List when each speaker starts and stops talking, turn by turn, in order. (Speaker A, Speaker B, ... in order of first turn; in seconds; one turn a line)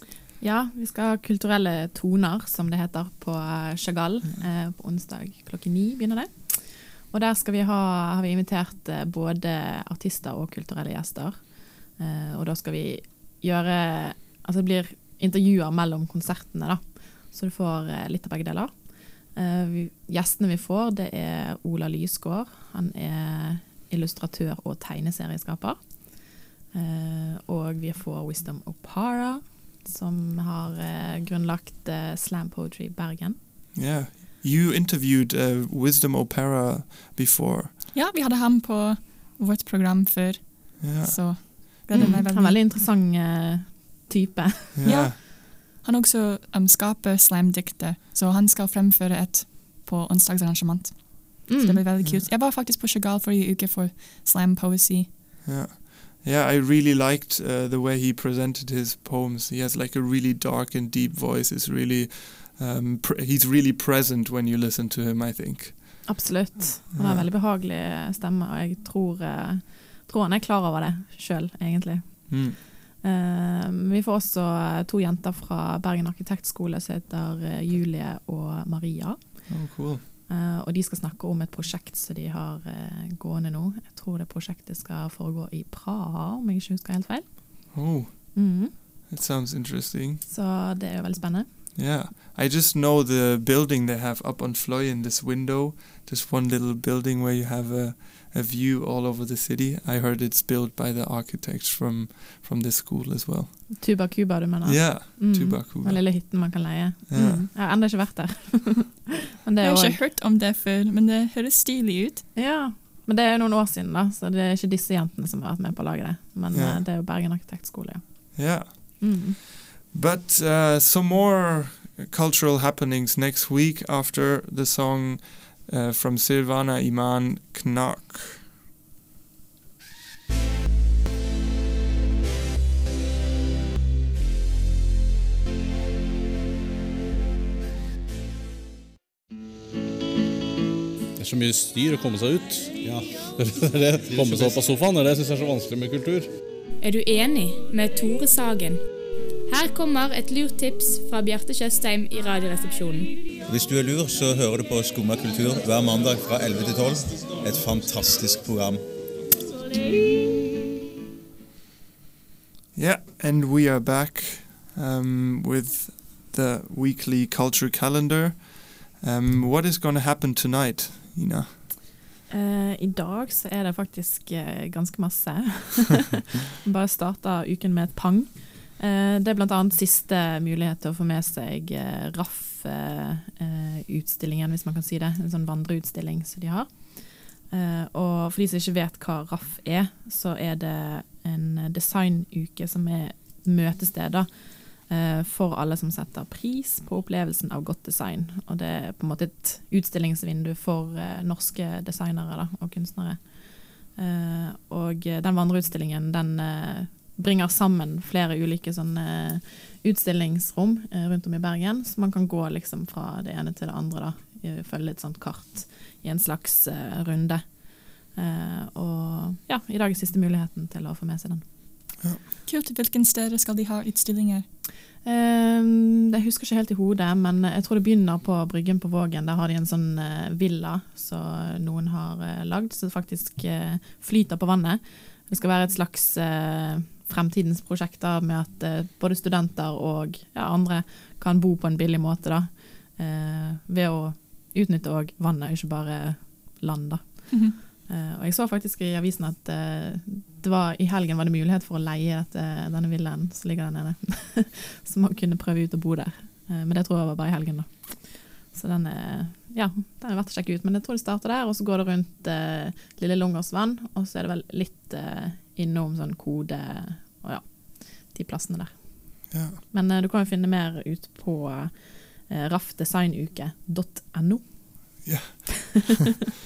Speaker A: 0.4-33.4
Speaker B: 33.7-37.8
Speaker C: 37.9-42.6
Speaker B: 40.8-42.1
Speaker A: 41.9-44.8
Speaker B: 44.7-45.2
Speaker C: 44.8-55.1
Speaker A: 51.5-51.8
Speaker B: 52.0-52.3
Speaker B: 55.4-66.2
Speaker A: 66.0-87.8
Speaker B: 66.9-67.3
Speaker B: 72.3-72.6
Speaker B: 79.5-80.0
Speaker B: 87.7-90.2
Speaker A: 88.3-88.7
Speaker A: 90.2-91.5
Speaker B: 91.7-103.8
Speaker A: 103.8-110.0
Speaker B: 104.6-106.5
Speaker B: 107.1-107.5
Speaker C: 109.6-112.2
Speaker A: 112.3-119.3
Speaker B: 116.5-116.8
Speaker B: 118.3-119.3
Speaker B: 119.9-128.5
Speaker D: 141.2-146.3
Speaker E: 146.8-148.8
Speaker E: 149.5-153.1
Speaker F: 153.5-158.8
Speaker B: 162.7-171.6
Speaker A: 172.3-221.4
Speaker C: 222.4-224.4
Speaker A: 225.0-275.1
Speaker B: 269.3-269.6
Speaker B: 275.0-276.0